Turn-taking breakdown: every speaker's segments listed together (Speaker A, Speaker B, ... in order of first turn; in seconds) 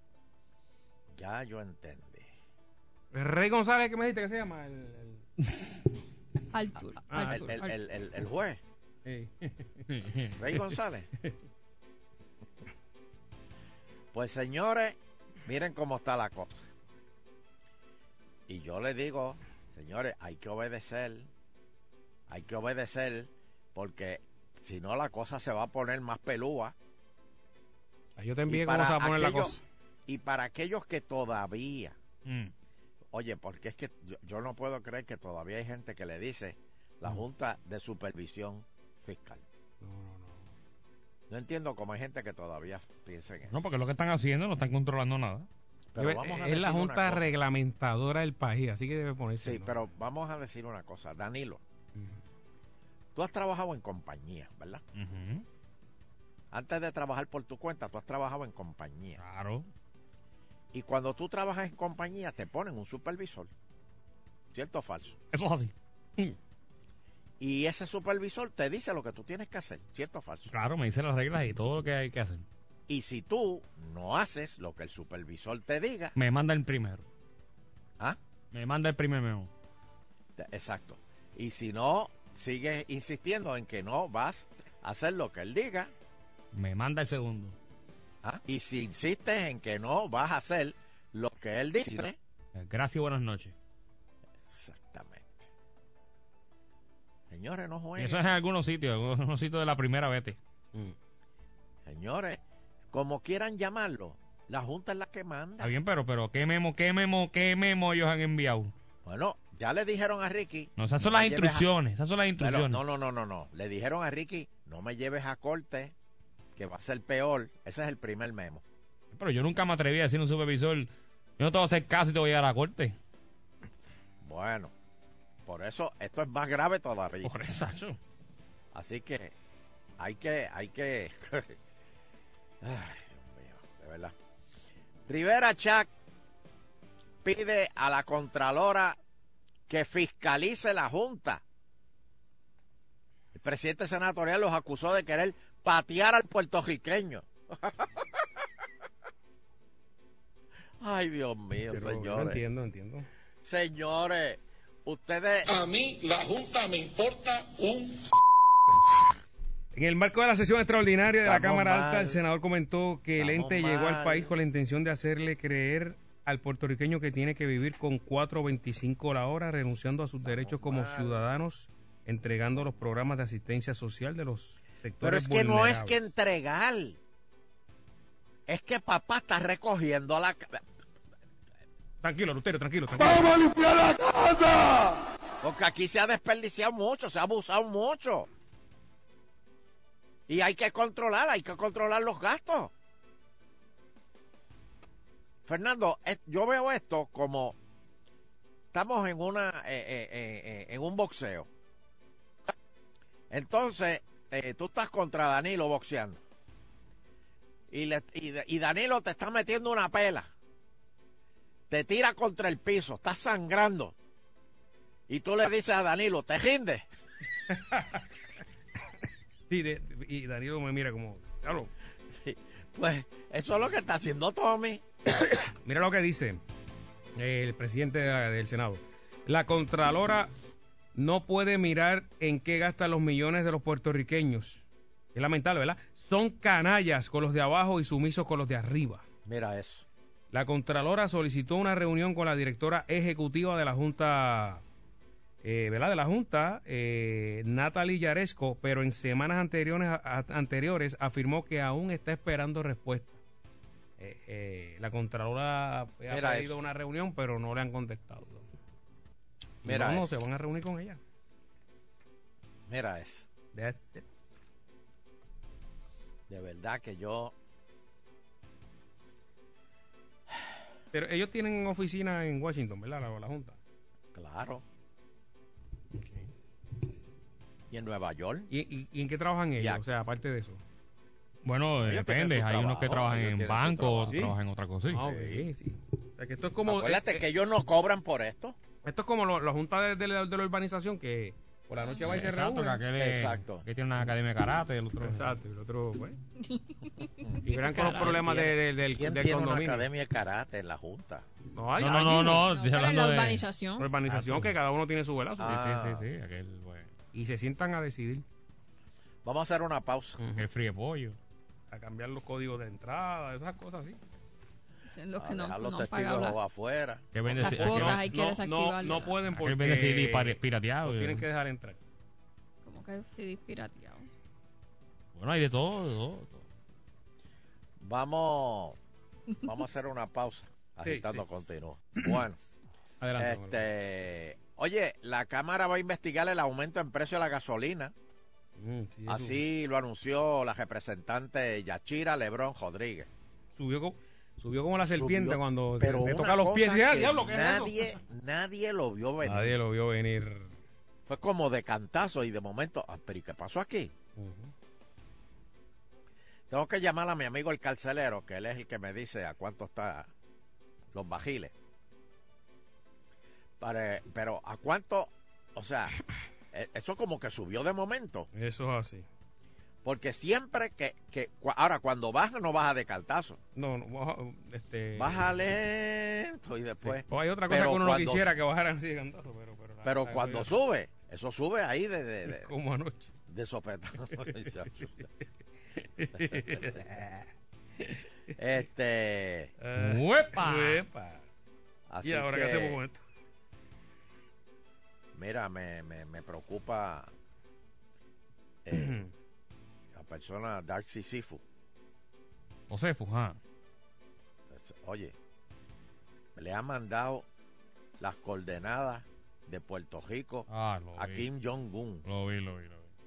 Speaker A: 1.1-2.3, 7.2-8.6, 10.4-11.1, 14.1-16.6, 18.5-21.3, 22.3-26.7, 28.5-29.6, 30.1-32.0, 33.1-39.4, 41.3-43.6, 45.9-47.3, 49.4-51.6, 53.1-54.8, 56.5-59.2, 60.7-63.5, 64.5-65.2, 67.4-70.5, 72.9-76.1, 80.4-85.9, 88.2-92.2, 94.5-95.5, 97.3-98.2, 101.8-105.7, 109.0-111.7, 112.4-115.9, 116.5-118.6, 124.2-124.7, 125.5-127.3, 128.7-129.3, 130.0-131.6, 132.6-134.1, 135.1-135.9, 137.2-139.0, 139.7-141.4, 143.3-148.4, 150.8-152.4, 153.4-155.5, 161.2-162.2, 163.2-164.3, 170.2-171.2, 175.0-177.0, 178.5-180.6, 185.4-188.3, 190.3-192.7, 195.4-197.6, 198.7-201.5, 203.3-206.2, 207.7-210.3, 211.7-213.9, 215.1-216.8, 222.2-224.8, 239.2-239.8, 256.1-256.6, 259.6-260.2, 262.7-263.2, 266.3-267.3, 274.1-274.6, 277.7-278.5, 279.6-279.8, 281.8-284.2, 285.1-285.4, 286.6-288.6, 292.9-293.7, 297.4-301.2, 305.4-306.1, 309.2-310.2, 315.2-317.6, 327.8-328.8, 329.4-332.4, 333.1-337.9, 339.1-343.1, 344.8-349.6, 351.1-353.9, 356.5-360.1, 360.9-361.5, 363.6-366.0, 366.5-368.3, 369.8-373.4, 374.9-378.3, 379.8-382.5, 383.3-384.9, 388.4-389.5, 391.9-392.8, 395.1-397.1, 398.6-399.0, 399.9-401.4, 404.5-405.1, 406.3-407.2, 408.0-412.0
Speaker B: 3.1-5.2, 7.1-7.4, 9.0-9.9, 28.2-29.6, 39.8-40.5, 46.0-49.8, 151.7-153.1, 159.7-175.9, 182.0-183.4, 217.5-218.0, 219.5-221.7, 225.6-226.4, 227.2-230.3, 230.9-239.0, 240.3-244.6, 245.4-253.2, 254.0-258.5, 259.6-261.0, 263.5-264.0, 270.9-273.6, 276.0-276.2, 278.5-280.6, 284.1-284.4, 284.9-287.2, 288.8-292.8, 295.0-296.2, 297.4-299.8, 301.5-302.4, 303.8-305.6, 307.1-308.2, 310.2-310.4, 311.7-314.0, 317.4-321.8, 330.8-331.2, 333.0-333.7, 338.6-339.4, 343.5-348.0, 349.2-350.5, 354.2-354.5, 368.3-369.0, 373.6-375.3, 376.8-380.5, 382.3-383.1, 386.0-387.0, 389.6-391.2, 392.0-393.0, 398.7-399.1
Speaker C: 6.5-7.7, 296.4-297.3, 302.2-303.9, 314.9-316.4, 317.4-319.1, 322.6-324.1
Speaker D: 9.9-10.3, 32.2-32.5, 43.5-45.5, 54.9-55.4, 59.2-59.7, 65.3-65.7, 70.5-72.4, 76.2-77.0, 78.5-79.5, 86.5-87.5, 92.5-93.5, 98.0-100.4, 105.6-108.7, 110.8-112.8, 119.1-122.9, 127.2-128.0, 281.4-285.1, 292.1-295.3, 301.8-303.4, 304.1-304.5, 305.4-306.9, 310.3-311.2, 317.1-318.1, 319.3-321.2, 325.1-326.4, 389.8-390.8, 402.7-403.4, 410.5-411.3, 412.1-412.9
Speaker E: 155.4-158.0, 183.6-184.7